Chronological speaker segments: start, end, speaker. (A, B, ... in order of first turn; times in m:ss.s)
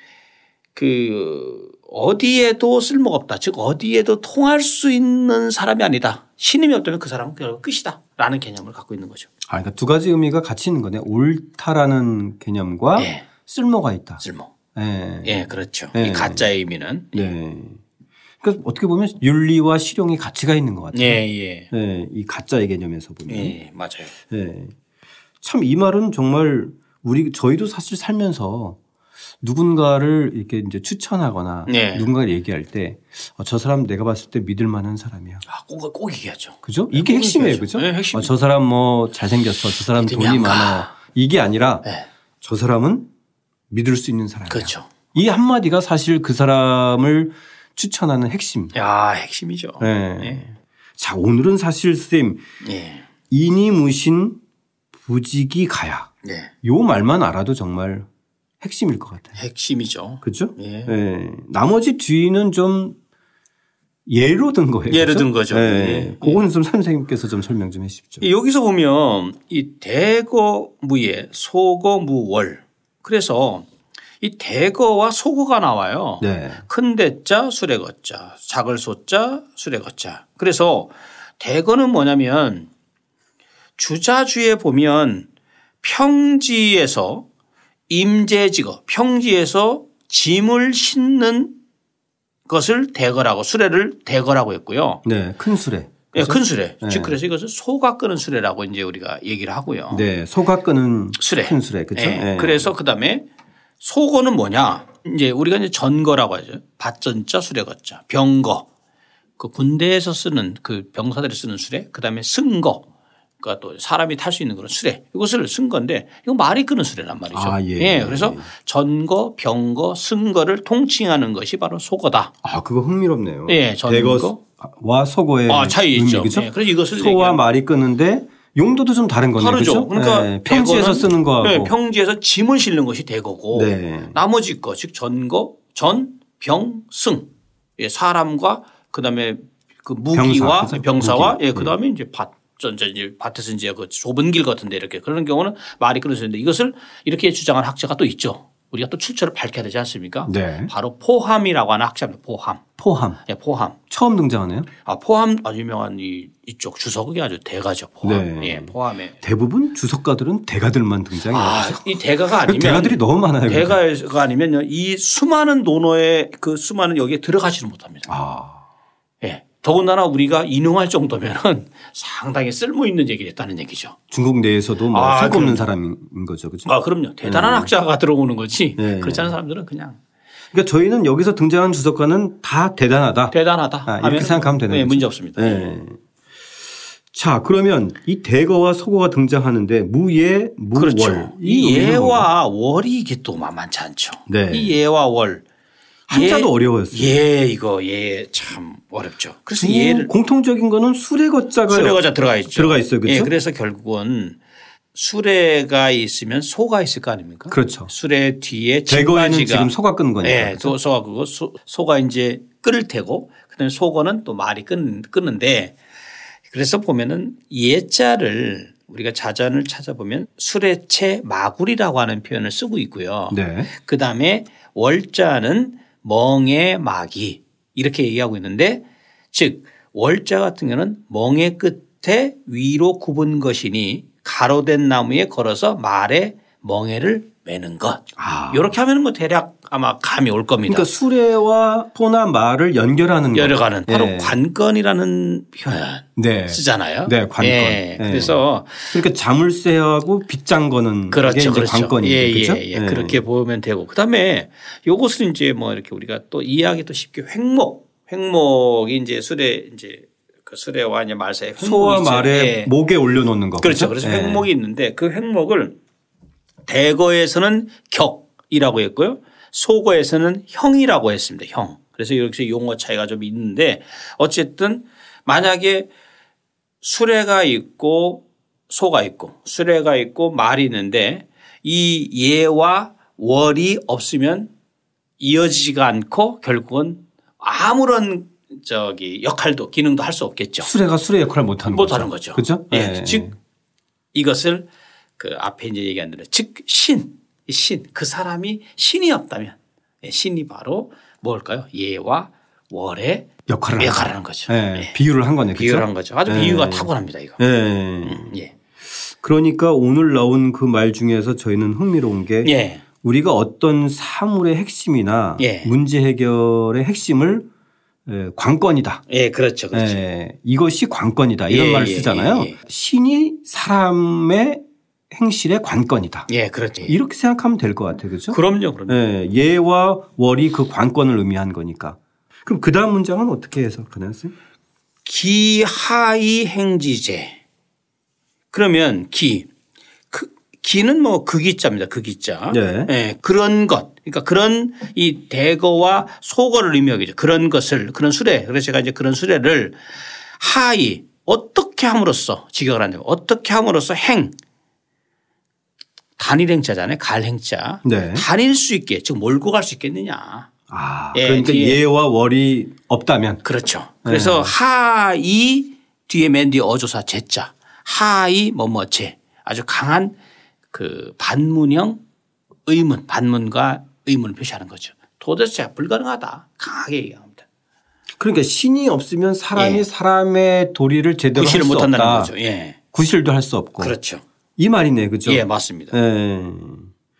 0:00.7-0:09.3 A
0:09.5-0:14.2 B
0:13.0-0:13.3 A
0:14.2-0:14.5 A
0:14.7-0:16.5 B
0:15.2-0:17.3 A
0:17.1-0:17.8 B
0:18.4-0:23.6 B
0:20.9-0:21.7 A
0:23.3-0:24.2 A
0:24.2-0:24.7 B
0:25.4-0:28.8 B
0:29.4-0:35.4 B
0:31.7-0:32.1 A
0:35.4-0:38.3 A
0:36.6-0:41.9 B
0:39.8-0:40.9 A
0:42.4-0:43.1 B
0:43.7-0:48.7 B
0:44.5-0:44.8 A
0:48.7-0:50.5 A
0:49.8-0:52.4 B
0:52.6-0:53.1 A
0:53.3-0:54.4 B
0:54.9-0:56.1 B
0:56.2-0:56.5 A
0:56.6-0:58.1 B
0:58.6-0:59.4 B
0:59.4-1:00.9 A
1:00.2-1:03.0 B
1:04.1-1:08.3 B
1:04.9-1:06.4 A
1:08.2-1:13.7 A
1:14.2-1:22.7 A
1:16.2-1:16.6 B
1:23.8-1:25.3 A
1:25.8-1:27.2 A
1:27.9-1:31.6 A
1:32.5-1:35.0 A
1:35.0-1:37.2 B
1:36.1-1:40.0 A
1:39.9-1:42.7 B
1:41.2-1:43.3 A
1:43.8-1:48.7 A
1:49.4-1:52.9 A
1:53.4-2:02.3 A
1:57.3-1:58.5 B
2:02.4-2:11.7 B
2:03.4-2:04.4 A
2:05.5-2:07.4 A
2:09.4-2:32.6 A
2:13.5-2:14.2 B
2:20.1-2:21.8 B
2:30.2-2:30.7 B
2:32.8-2:33.2 B
2:33.3-2:33.8 A
2:33.9-2:34.7 B
2:34.8-2:39.2 A
2:38.0-2:43.8 B
2:41.2-2:48.1 A
2:48.1-2:48.6 B
2:49.2-2:54.0 A
2:54.1-2:56.7 B
2:54.9-2:55.7 A
2:56.6-3:00.0 A
2:57.2-2:57.7 B
2:58.8-2:59.3 B
3:00.5-3:06.0 B
3:03.3-3:05.8 A
3:07.1-3:12.3 B
3:10.7-3:15.4 A
3:14.3-3:14.8 B
3:16.1-3:17.2 B
3:16.1-3:20.1 A
3:19.5-3:23.3 B
3:21.7-3:24.4 A
3:24.9-3:35.8 A
3:27.5-3:27.9 B
3:28.9-3:30.8 B
3:36.5-4:00.9 A
3:43.3-3:43.7 B
3:58.2-3:58.8 B
4:00.7-4:04.4 B
4:03.3-4:09.0 A
4:06.2-4:13.2 B
4:11.1-4:22.7 A
4:21.6-4:24.5 B
4:23.6-4:25.8 A
4:26.6-4:35.9 A
4:36.8-4:44.5 A
4:45.2-4:50.7 A
4:50.6-4:53.4 B
4:51.6-4:53.2 A
4:54.1-4:54.7 A
4:55.2-5:04.9 A
5:03.5-5:08.3 B
5:05.5-5:07.4 A
5:08.0-5:08.5 A
5:09.2-5:17.4 B
5:12.4-5:12.8 A
5:15.4-5:15.7 A
5:18.0-5:19.0 B
5:19.1-5:20.0 A
5:19.7-5:26.3 B
5:21.5-5:22.6 A
5:26.3-5:27.0 A
5:26.8-5:34.3 B
5:28.3-5:29.0 A
5:35.0-5:37.4 A
5:38.5-5:39.5 A
5:40.1-5:49.8 A
5:42.5-5:42.9 B
5:50.3-5:54.3 A
5:56.2-6:00.5 A
5:57.8-5:58.2 B
6:00.7-6:03.4 B
6:01.1-6:01.8 A
6:03.4-6:10.1 A
6:04.0-6:04.5 B
6:10.7-6:12.0 A
6:12.7-6:17.4 A
6:18.2-6:22.3 B
6:19.5-6:19.9 A
6:21.3-6:22.8 A
6:22.9-6:23.9 B
6:23.8-6:24.2 A
6:24.6-6:26.9 B
6:25.2-6:26.0 A